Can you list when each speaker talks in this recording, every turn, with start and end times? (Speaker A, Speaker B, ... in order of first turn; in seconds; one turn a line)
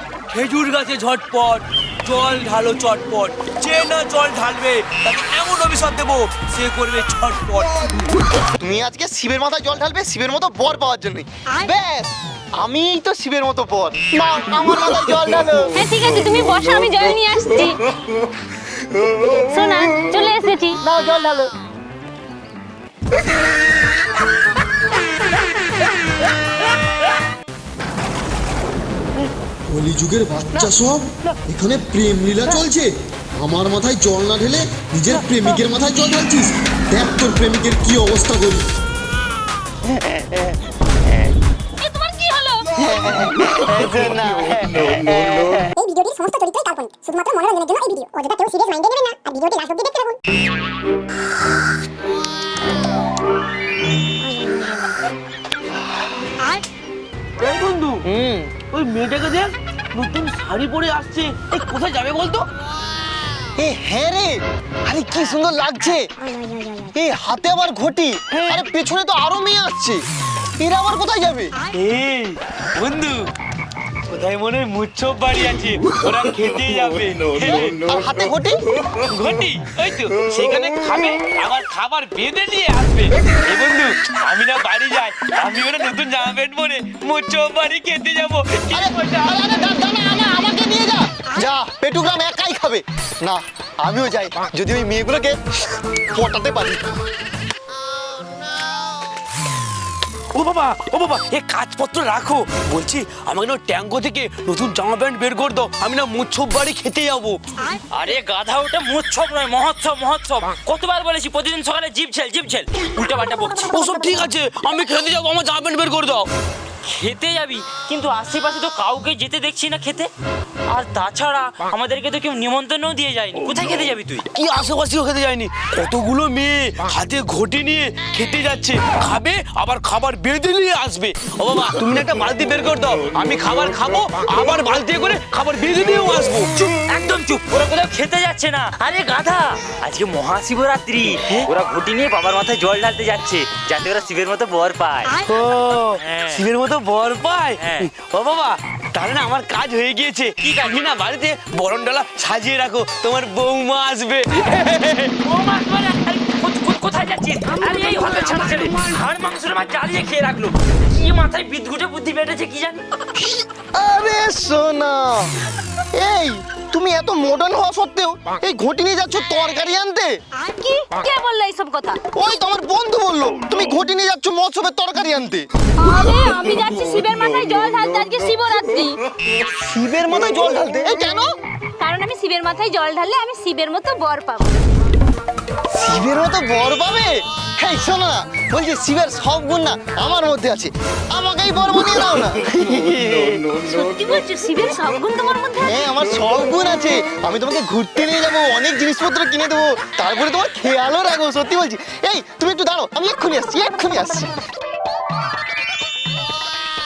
Speaker A: 0.3-7.7
Speaker B: 8.6-15.8
Speaker C: 15.7-17.8
Speaker C: 19.3-20.8
Speaker B: 20.8-21.5
Speaker D: 29.7-38.7
Speaker A: 35.1-35.5
Speaker B: 40.0-40.5
Speaker C: 41.8-42.7
Speaker B: 42.8-45.7
Speaker E: 45.8-50.2
Speaker E: 54.2-54.8
Speaker A: 57.4-58.1
Speaker B: 58.1-58.5
Speaker A: 58.7-62.5
Speaker B: 63.6-70.0
Speaker B: 70.6-71.5
Speaker A: 71.7-73.3
Speaker A: 74.1-77.7
Speaker B: 77.5-78.6
Speaker A: 79.0-89.5
Speaker B: 88.7-95.4
Speaker B: 96.1-96.8
Speaker A: 100.3-107.4
Speaker F: 107.9-113.7
Speaker A: 113.7-116.3
Speaker F: 116.8-120.1
Speaker F: 120.7-124.2
Speaker A: 124.3-136.5
Speaker F: 136.6-145.1
Speaker A: 145.2-155.1
Speaker F: 145.9-146.4
Speaker F: 147.6-147.9
Speaker F: 150.4-150.8
Speaker F: 155.2-162.8
Speaker B: 163.2-165.3
Speaker B: 165.9-170.2
Speaker C: 170.4-172.0
Speaker B: 172.2-175.5
Speaker C: 175.8-179.0
Speaker B: 179.4-181.3
Speaker C: 181.8-184.5
Speaker B: 185.7-193.6
Speaker C: 193.6-195.9
Speaker B: 195.6-204.3